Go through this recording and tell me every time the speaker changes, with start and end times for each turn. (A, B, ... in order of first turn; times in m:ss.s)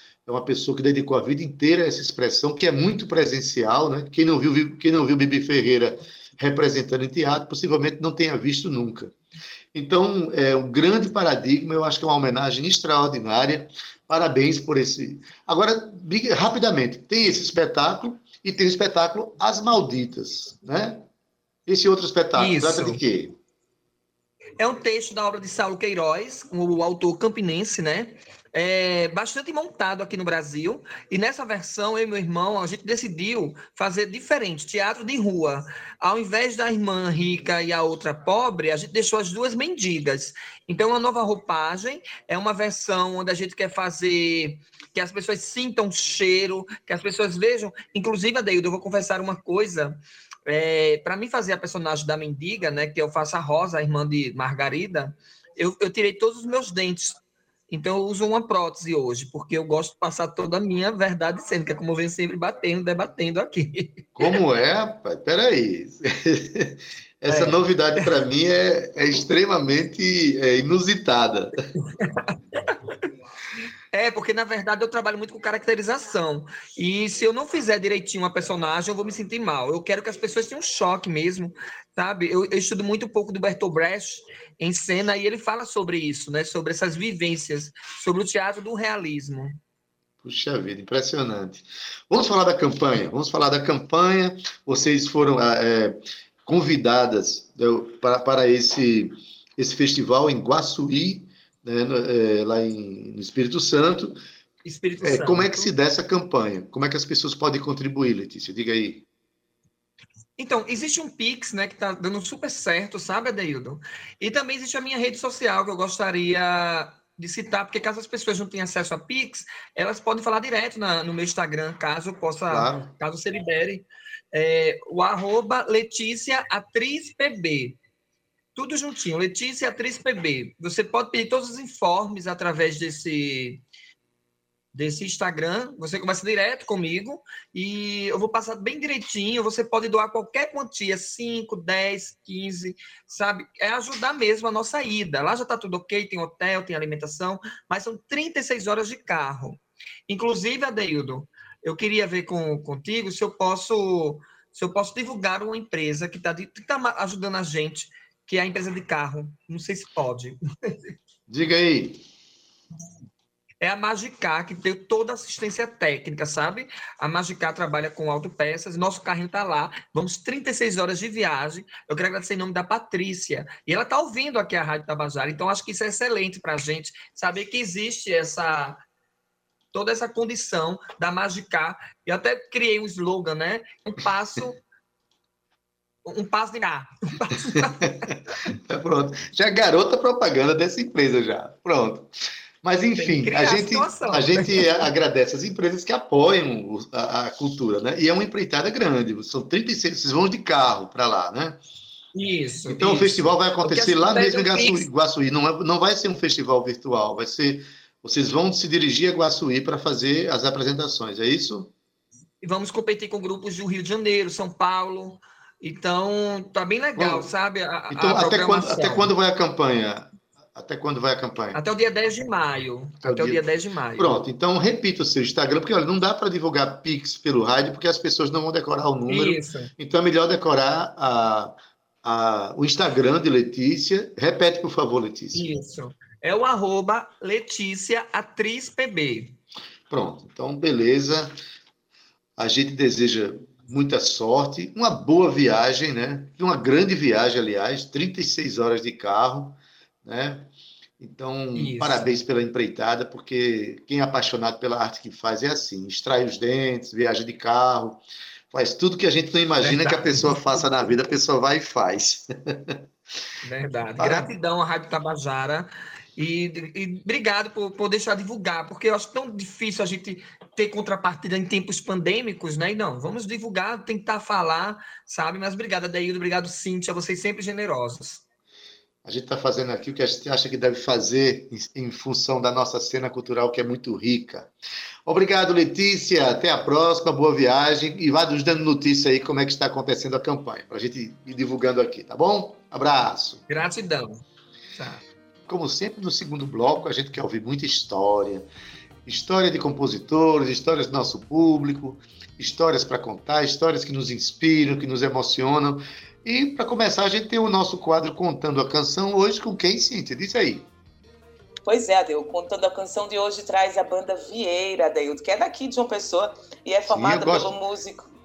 0:00.3-0:09.1 A
0:09.7-0:21.1 A
0:21.7-0:23.4 A
0:22.4-0:23.0 B
0:24.6-1:04.0 B
1:04.2-1:11.7 A
1:07.3-1:08.1 B
1:12.0-1:12.7 B
1:13.9-1:29.6 B
1:30.2-1:44.2 A
1:44.6-1:45.7 B
1:45.0-1:49.1 A
1:50.4-2:07.8 B
2:02.5-2:02.9 A
2:08.6-2:13.6 B
2:14.7-2:40.9 B
2:41.3-2:42.0 A
2:43.6-2:58.8 B
2:59.7-3:04.6 B
3:06.1-3:08.1 B
3:08.5-3:12.1 A
3:12.6-3:21.6 A
3:13.0-3:14.7 B
3:22.1-3:24.9 B
3:22.7-3:31.7 A
3:32.4-3:39.1 B
3:37.0-3:37.3 A
3:37.9-3:41.6 A
3:41.5-3:44.2 B
3:43.0-3:43.4 A
3:44.0-3:55.5 A
3:49.1-3:49.7 B
3:55.3-3:59.4 B
3:59.9-4:01.3 A
4:02.4-4:22.8 A
4:11.6-4:12.1 B
4:19.6-4:20.8 B
4:23.4-4:38.2 B
4:24.0-4:24.3 A
4:39.0-4:44.5 A
4:45.1-4:53.4 A
4:53.5-4:54.2 B
4:54.8-4:55.0 B
4:55.5-4:58.5 A
4:59.1-5:10.7 A
5:11.6-5:18.1 C
5:16.9-5:17.5 A